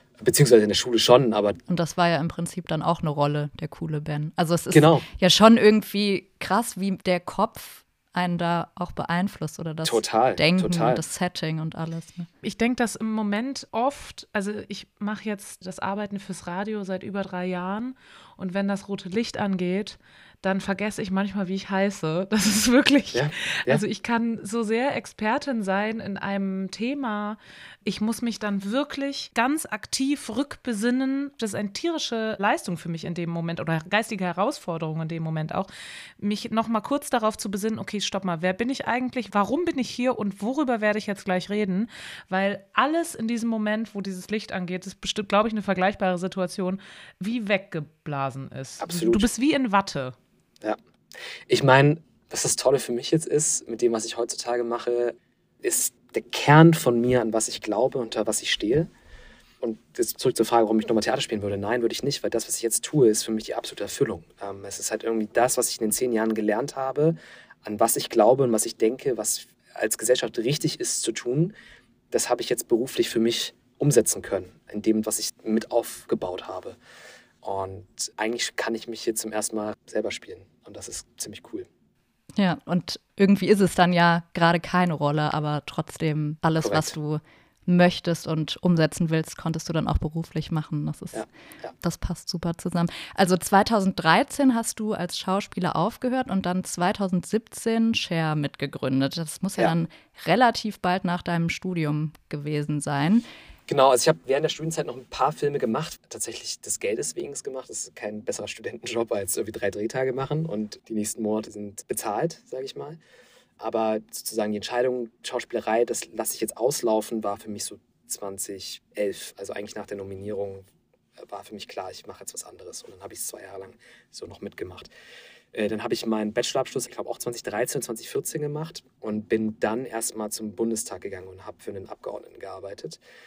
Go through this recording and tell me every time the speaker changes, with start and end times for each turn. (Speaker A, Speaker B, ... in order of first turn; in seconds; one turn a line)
Speaker A: 0.2-1.6
Speaker B: 1.7-12.3
Speaker A: 4.7-5.1
Speaker A: 9.8-11.0
Speaker C: 12.4-50.1
Speaker A: 23.1-23.8
Speaker A: 48.8-49.3
Speaker A: 51.5-58.9
Speaker A: 59.6-71.5
Speaker A: 72.1-76.8
Speaker A: 77.4-81.7
Speaker B: 82.4-91.2
Speaker A: 86.6-86.9
Speaker A: 91.1-91.7
Speaker B: 91.8-103.2
Speaker A: 103.7-113.0
Speaker A: 113.6-120.7
Speaker A: 121.2-124.9
Speaker A: 125.5-133.0